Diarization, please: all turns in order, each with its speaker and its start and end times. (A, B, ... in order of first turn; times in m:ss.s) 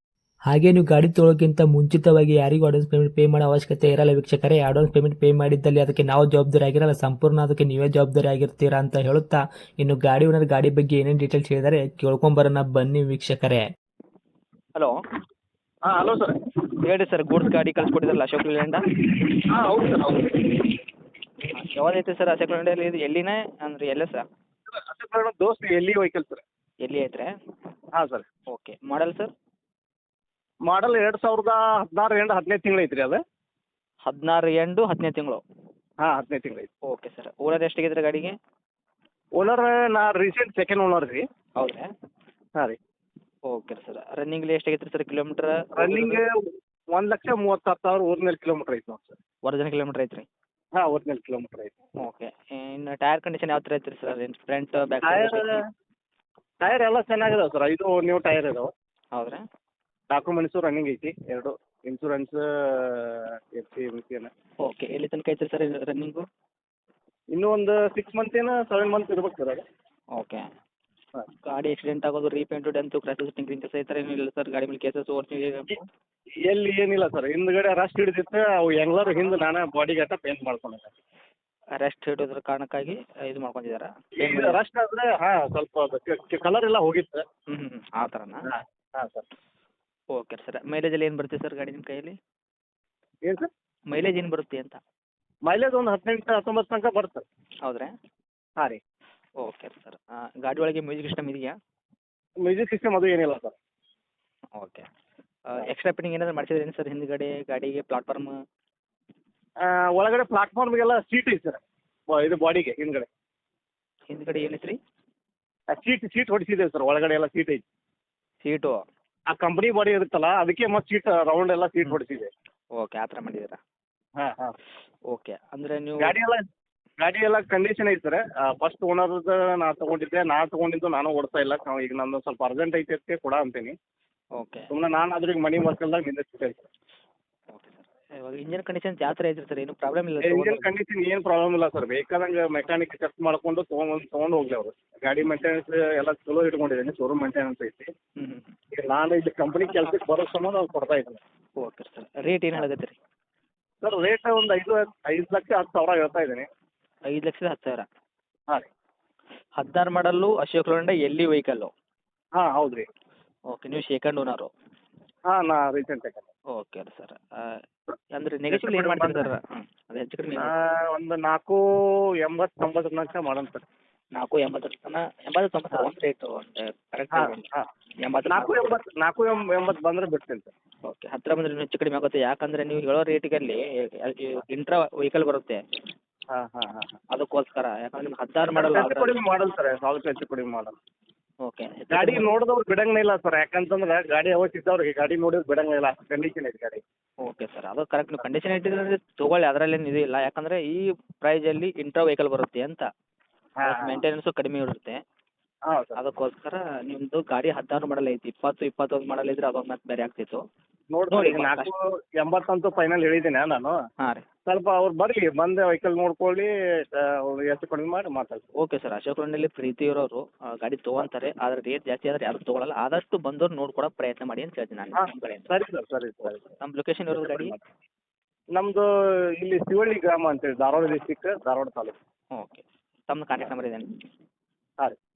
0:00.5-0:13.6 A
0:15.9-0:16.4 B
0:16.8-0:18.9 C
0:19.4-0:20.8 B
0:21.5-0:24.3 C
0:24.7-0:26.4 B
0:26.8-0:27.3 C
0:28.0-0:28.3 B
0:28.5-0:29.3 C
0:30.7-0:33.2 B
0:34.1-0:35.4 C
0:36.0-0:36.7 B
0:36.9-0:38.4 C
0:39.4-0:41.2 B
0:41.6-0:41.9 C
0:43.5-0:46.2 C
0:45.8-0:46.4 B
0:46.9-0:49.2 B
0:49.4-0:50.3 C
0:50.8-0:51.7 B
0:52.0-0:55.6 C
0:55.0-0:55.6 B
0:56.6-0:58.7 B
0:59.1-0:59.4 C
1:00.1-1:04.3 B
1:04.6-1:06.2 C
1:07.3-1:09.6 B
1:10.2-1:10.5 C
1:11.5-1:15.9 C
1:16.4-1:20.9 B
1:21.8-1:24.6 C
1:24.2-1:27.2 B
1:27.5-1:28.4 C
1:28.4-1:29.3 B
1:30.1-1:32.2 C
1:33.2-1:33.5 B
1:33.9-1:34.8 C
1:35.5-1:37.3 B
1:37.6-1:37.9 C
1:39.4-1:41.6 C
1:42.4-1:43.6 B
1:44.6-1:44.9 C
1:45.5-1:48.4 C
1:49.6-1:53.1 B
1:54.1-1:54.8 C
1:55.7-1:57.6 B
1:58.4-1:58.8 C
1:59.3-2:02.3 B
2:02.8-2:03.6 C
2:04.2-2:04.6 B
2:05.1-2:06.2 C
2:06.0-2:06.4 B
2:07.0-2:13.8 B
2:14.4-2:14.7 C
2:14.7-2:16.7 B
2:17.5-2:20.7 C
2:20.2-2:27.9 B
2:28.2-2:28.5 C
2:28.7-2:31.2 B
2:31.6-2:33.0 C
2:33.8-2:36.5 B
2:37.1-2:37.9 C
2:39.6-2:41.7 C
2:42.4-2:42.9 B
2:43.5-2:44.5 C
2:45.3-2:46.3 B
2:46.6-2:47.6 C
2:48.1-2:50.5 C
2:48.5-2:49.3 B
2:50.4-2:51.6 B
2:52.2-2:53.6 B
2:54.2-2:57.5 C
2:57.1-2:57.7 B
2:58.0-2:58.8 C
2:58.3-3:00.5 B
3:00.8-3:05.6 C
3:06.3-3:07.0 B
3:07.1-3:09.2 C
3:08.5-3:10.8 B
3:11.4-3:12.3 C
3:11.9-3:16.8 B
3:17.2-3:22.9 C
3:23.6-3:24.0 B
3:23.7-3:25.0 C
3:25.7-3:26.0 B
3:26.0-3:30.4 C
3:30.9-3:33.8 B
3:31.1-3:31.7 C
3:34.5-3:38.4 B
3:38.6-3:45.5 C
3:45.0-3:46.4 B
3:46.2-3:47.6 C
3:47.1-3:47.6 B
3:48.6-3:48.9 B
3:49.4-3:51.9 B
3:52.4-3:53.9 C